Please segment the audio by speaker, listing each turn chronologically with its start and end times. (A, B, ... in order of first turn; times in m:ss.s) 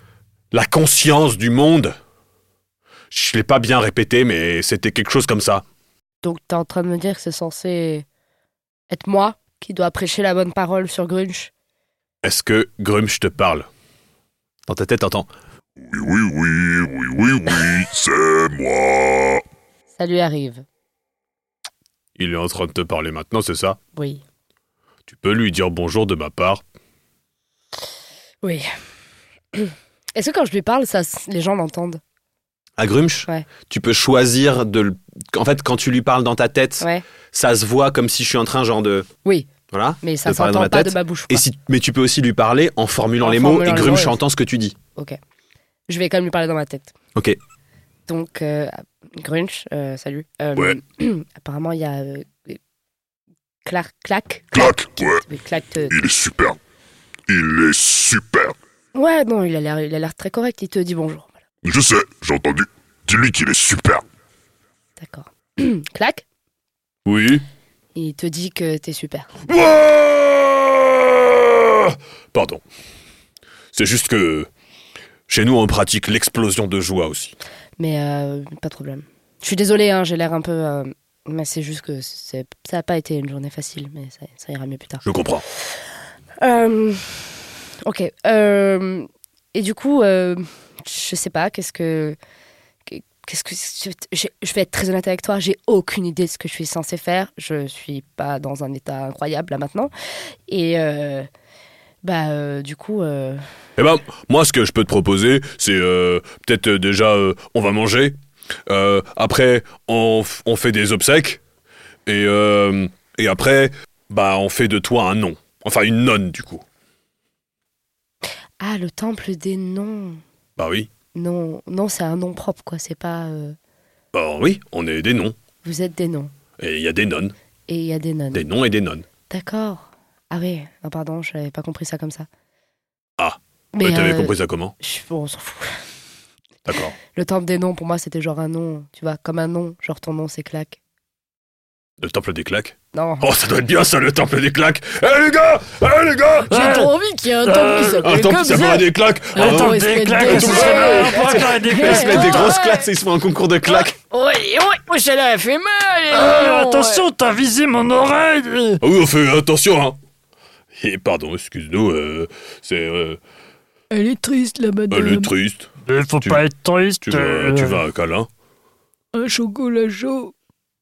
0:00.5-0:02.0 A
0:03.1-0:05.6 A
0:06.2-0:08.1 B
0:08.9-0:11.5 B
0:12.2-0:13.7 A
0:14.7-0:15.3 A
0:15.8-0:19.4 C
0:20.0-0:20.6 B
0:22.2-0:23.8 A
0:24.0-0:24.2 B
0:25.1-0:26.6 A
0:29.6-0:32.0 B
0:32.8-0:39.1 A
0:39.7-0:44.8 A
0:40.0-0:41.4 B
0:43.2-0:44.2 B
0:45.9-0:46.9 B
0:48.1-0:52.6 B
0:53.6-0:56.0 B
0:54.5-0:55.2 C
0:55.9-0:56.6 C
0:57.3-0:58.6 C
0:59.0-1:01.4 B
1:01.6-1:04.0 C
1:05.0-1:06.2 B
1:07.1-1:07.4 A
1:08.0-1:09.3 B
1:09.5-1:12.6 A
1:13.7-1:14.5 A
1:15.3-1:17.3 A
1:17.8-1:25.0 B
1:25.0-1:25.4 A
1:26.4-1:32.2 B
1:32.9-1:39.9 B
1:40.5-1:41.3 B
1:42.0-1:43.4 B
1:43.8-1:48.2 A
1:48.7-1:51.4 A
1:52.1-1:56.6 A
1:58.6-2:00.2 B
2:00.6-2:00.9 A
2:01.2-2:03.6 B
2:04.1-2:05.4 A
2:05.6-2:06.3 B
2:06.6-2:07.3 A
2:07.7-2:08.5 B
2:08.3-2:09.0 A
2:09.3-2:12.3 B
2:13.2-2:14.7 A
2:13.7-2:15.8 B
2:16.7-2:17.0 A
2:17.1-2:20.8 B
2:22.0-2:26.5 A
2:22.9-2:23.3 B
2:26.5-2:32.8 D
2:26.5-2:26.9 E
2:27.4-2:28.1 E
2:28.0-2:34.0 A
2:29.4-2:32.6 E
2:34.1-2:37.0 D
2:36.1-2:38.8 E
2:38.8-2:40.0 A
2:40.8-2:43.2 A
2:43.9-2:45.3 D
2:44.9-2:45.7 A
2:45.9-2:47.8 E
2:47.1-2:48.3 A
2:49.1-2:50.3 D